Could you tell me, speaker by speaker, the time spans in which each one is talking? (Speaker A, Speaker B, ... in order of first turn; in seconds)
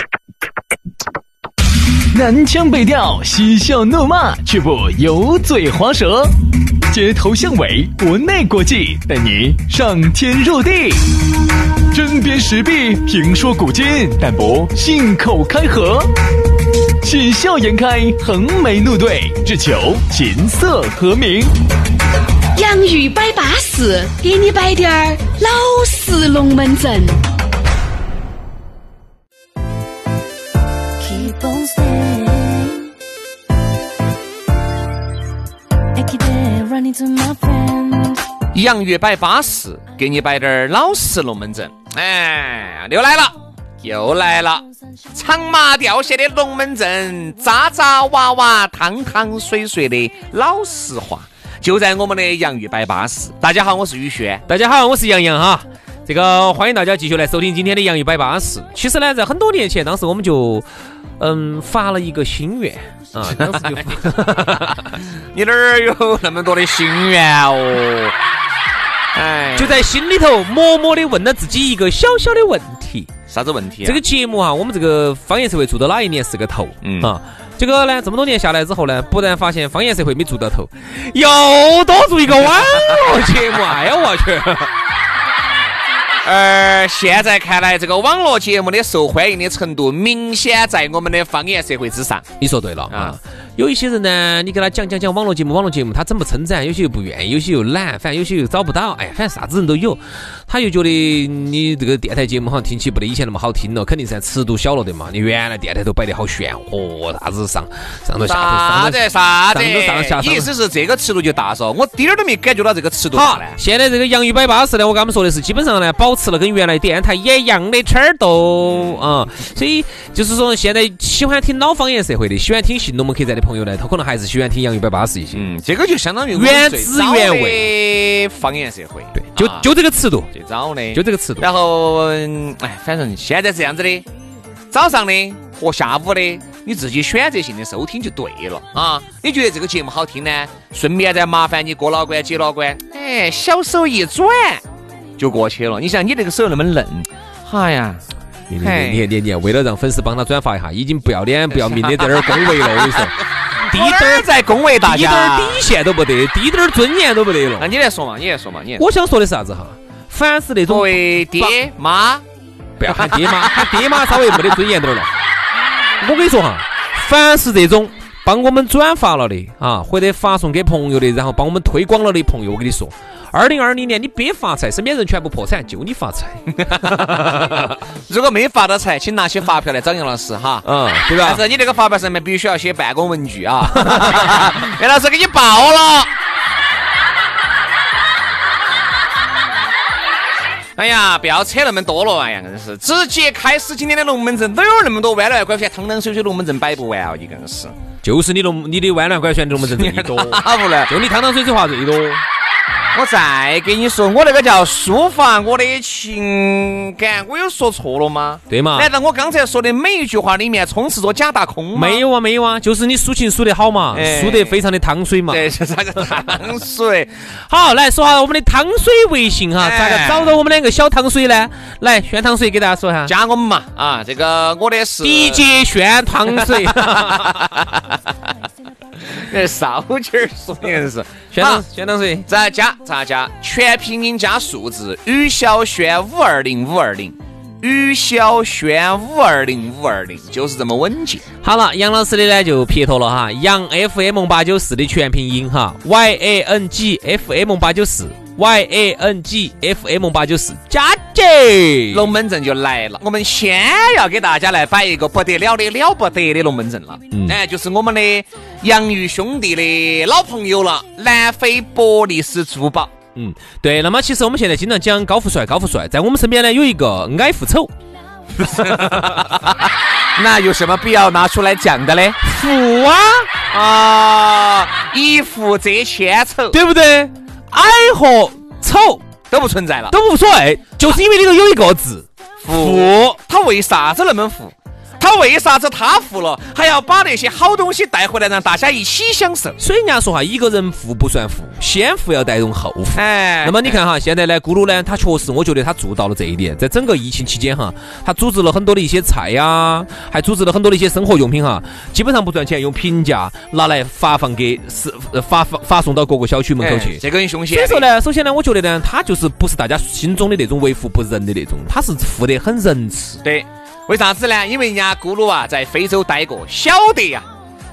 Speaker A: 2.1-6.3, 6.9-11.2, 11.9-16.1, 17.0-21.5
Speaker B: 22.5-27.1
Speaker C: 31.0-32.9, 36.0-38.2
Speaker D: 38.5-54.4, 63.4-64.0, 64.6-68.1, 69.1-69.8, 73.3-74.0, 76.8-77.1, 82.6-83.3, 86.2-92.3, 92.9-93.2, 108.2-113.6, 118.6-119.0, 125.3-129.7, 130.3-134.1, 134.7-144.6, 145.2-148.0, 148.6-149.1, 151.5-153.1, 153.6-155.6, 157.6-158.8, 160.7-162.2, 162.9-163.8, 176.5-186.1, 190.8-197.7, 199.6-200.9, 202.9-212.0, 213.9-214.6, 215.3-217.2, 219.6-220.4, 223.1-225.4, 226.2-228.3, 229.0-231.7, 232.3-241.2, 251.9-262.9, 268.4-272.2, 273.5-276.6, 279.3-279.9, 282.4-289.6, 292.9-293.8, 306.6-307.9, 313.2-317.3
Speaker E: 54.5-60.7, 61.2-64.9, 69.5-73.1, 73.8-84.7, 92.4-110.5, 113.1-125.5, 126.3-127.7, 129.1-130.3, 130.9-131.5, 148.5-153.2, 153.7-154.3, 154.8-157.7, 158.8-161.6, 162.8-165.1, 166.0-176.5, 180.6-181.4, 198.0-202.2, 208.5-208.9, 211.7-215.5, 217.4-223.1, 225.0-227.5, 231.3-232.3, 241.4-252.0, 257.1-257.4, 263.1-267.7, 272.2-273.3, 276.5-279.0, 279.9-283.2, 289.6-313.2